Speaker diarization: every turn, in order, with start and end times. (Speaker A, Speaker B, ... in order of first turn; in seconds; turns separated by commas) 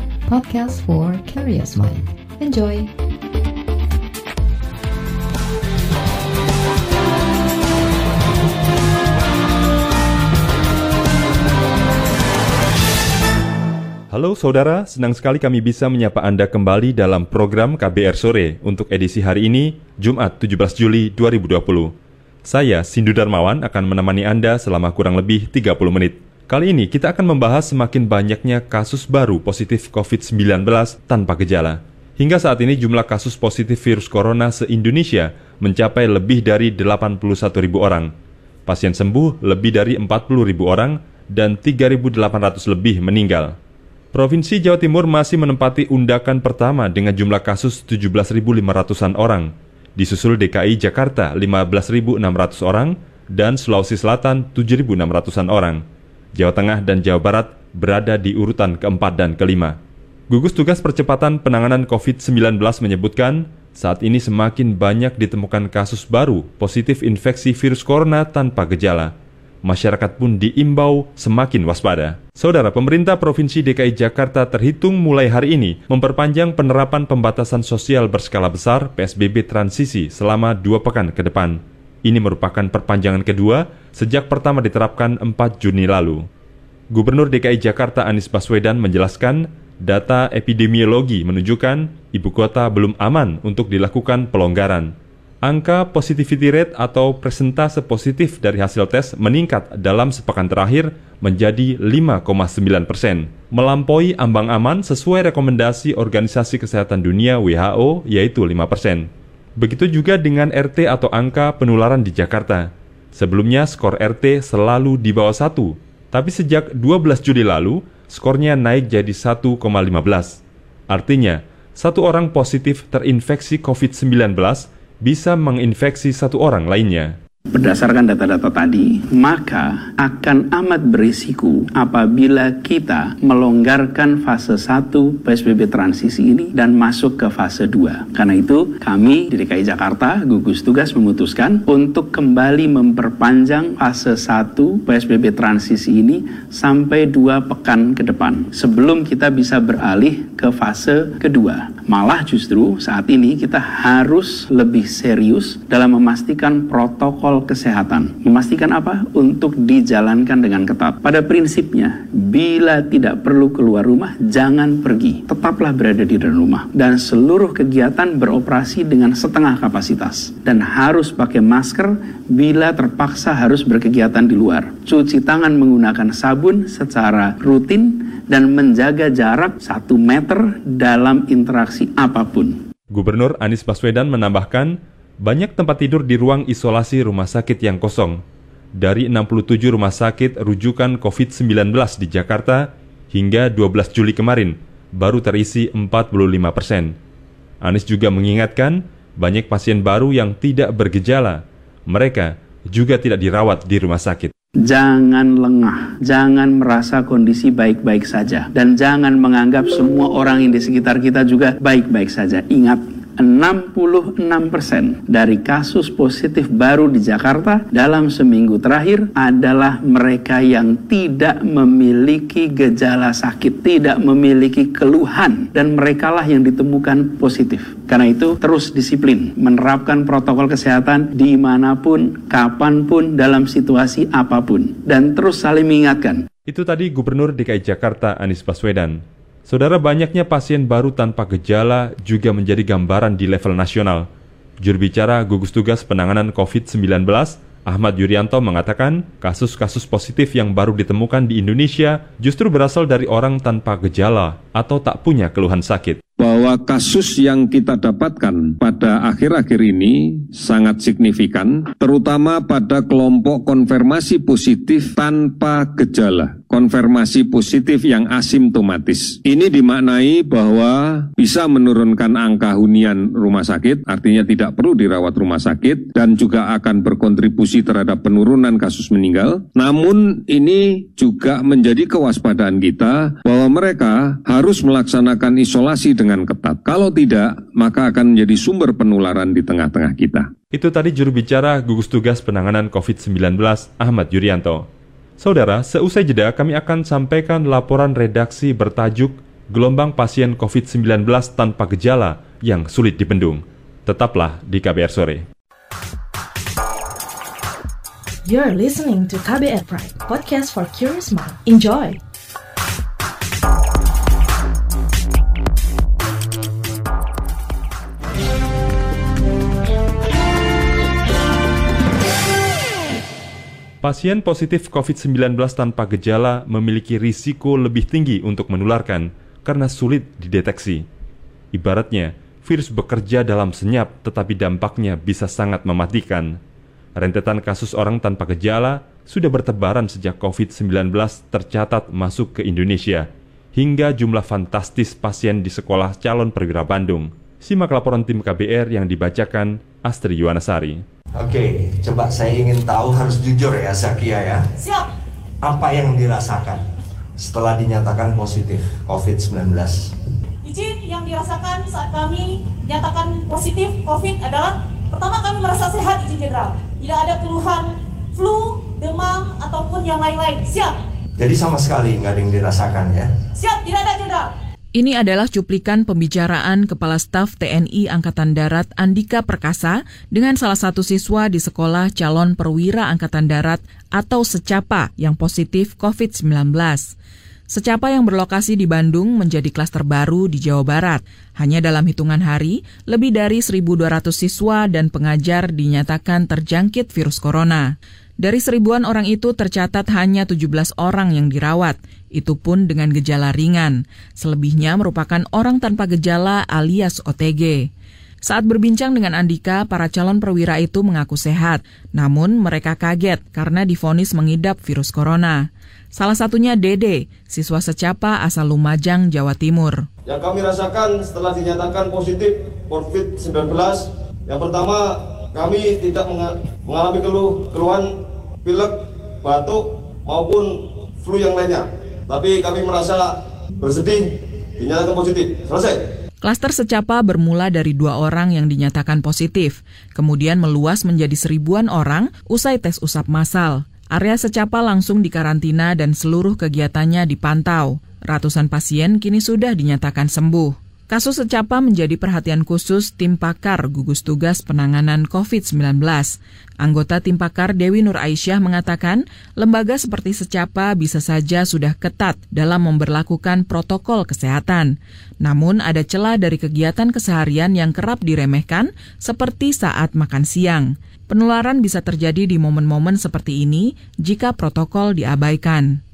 Speaker A: 0.2-2.9, Speaker B: 14.1-21.9, Speaker B: 22.5-38.1, Speaker B: 38.7-43.5, Speaker B: 44.1-55.8, Speaker B: 56.3-59.8, Speaker B: 60.3-86.2, Speaker B: 86.9-94.9, Speaker B: 95.4-127.1, Speaker C: 127.5-182.7, Speaker B: 182.9-188.2, Speaker B: 188.8-197.0, Speaker B: 197.6-204.3, Speaker C: 204.6-236.2, Speaker B: 236.5-244.1, Speaker B: 244.6-256.0, Speaker D: 256.2-290.3, Speaker B: 290.5-294.6, Speaker B: 295.2-305.2, Speaker E: 308.2-312.0, Speaker B: 323.8-330.9, Speaker B: 331.5-336.4, Speaker B: 336.9-350.8, Speaker F: 351.2-354.4, Speaker G: 354.6-354.9, Speaker F: 355.4-356.6, Speaker F: 357.2-359.8, Speaker G: 360.4-370.8, Speaker F: 371.2-373.0, Speaker G: 373.3-374.3, Speaker H: 374.8-386.9, Speaker H: 387.5-407.7, Speaker H: 408.2-419.9, Speaker I: 420.1-435.9, Speaker H: 436.2-475.8